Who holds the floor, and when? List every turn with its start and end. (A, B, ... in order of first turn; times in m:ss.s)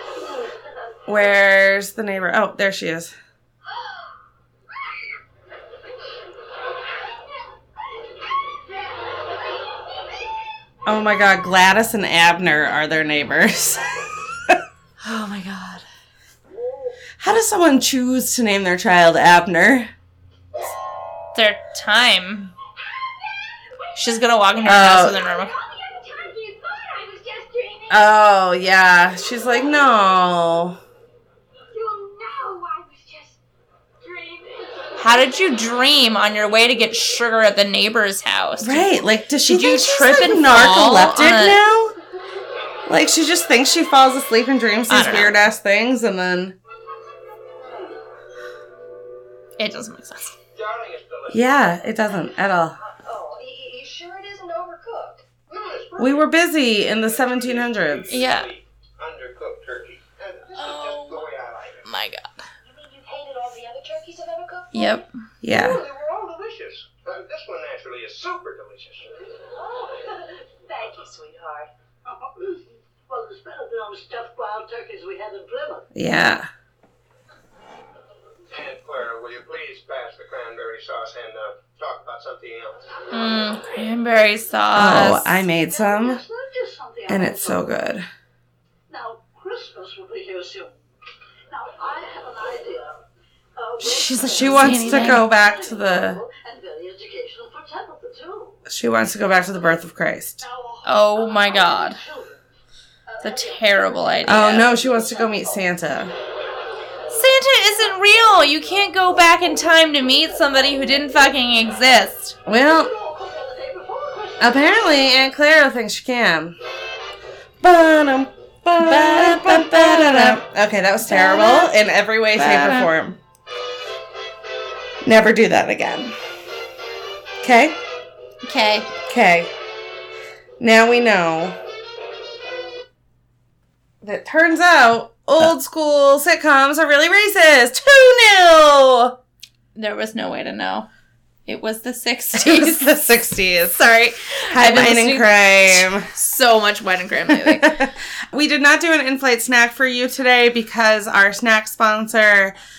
0:01.1-0:03.1 A
0:10.9-0:14.6 A
0:15.0-0:15.8 B
0:16.5-0:17.0 C
0:17.2-0:19.9 A
0:21.3-0:22.5 B
0:24.0-0:25.5 B
0:24.6-0:25.2 A
0:25.3-0:28.0 D
0:27.9-0:30.8 A
0:31.7-0:33.4 D
0:34.0-0:34.5 D
0:35.0-0:41.6 B
0:38.6-0:42.0 A
0:42.9-0:46.6 A
0:44.9-0:45.4 B
0:49.6-0:50.4 B
0:50.5-0:51.8 C
0:51.3-0:52.8 A
0:52.8-0:55.2 D
0:55.5-1:01.9 C
0:56.0-0:58.2 A
0:58.1-0:58.5 B
1:00.6-1:01.3 B
1:01.8-1:02.3 B
1:02.6-1:05.0 D
1:04.7-1:05.1 B
1:05.4-1:05.8 A
1:05.5-1:09.2 C
1:09.6-1:11.7 D
1:13.1-1:15.9 E
1:16.0-1:16.5 A
1:18.5-1:22.9 C
1:23.1-1:25.4 B
1:24.7-1:26.2 A
1:25.7-1:27.7 E
1:27.1-1:28.1 A
1:28.9-1:30.7 E
1:31.5-1:33.0 E
1:33.6-1:38.6 E
1:33.8-1:35.3 B
1:33.9-1:36.2 A
1:38.7-1:40.4 A
1:40.4-1:42.4 E
1:40.8-1:42.0 B
1:43.1-1:45.7 E
1:43.2-1:44.7 B
1:44.2-1:46.1 A
1:47.1-1:52.4 B
1:52.5-1:52.9 A
1:52.5-1:55.2 E
1:54.4-1:56.6 A
1:57.6-2:03.2 A
1:58.8-2:00.4 B
2:01.1-2:01.7 B
2:02.4-2:02.9 B
2:05.0-2:06.1 A
2:07.4-2:07.8 A
2:08.4-2:08.9 B
2:09.1-2:09.5 A
2:10.6-2:11.6 A
2:14.0-2:19.2 A
2:19.8-2:20.9 B
2:21.5-2:22.9 B
2:22.4-2:23.8 A
2:23.7-2:27.9 B
2:24.5-2:26.1 A
2:27.3-2:32.6 A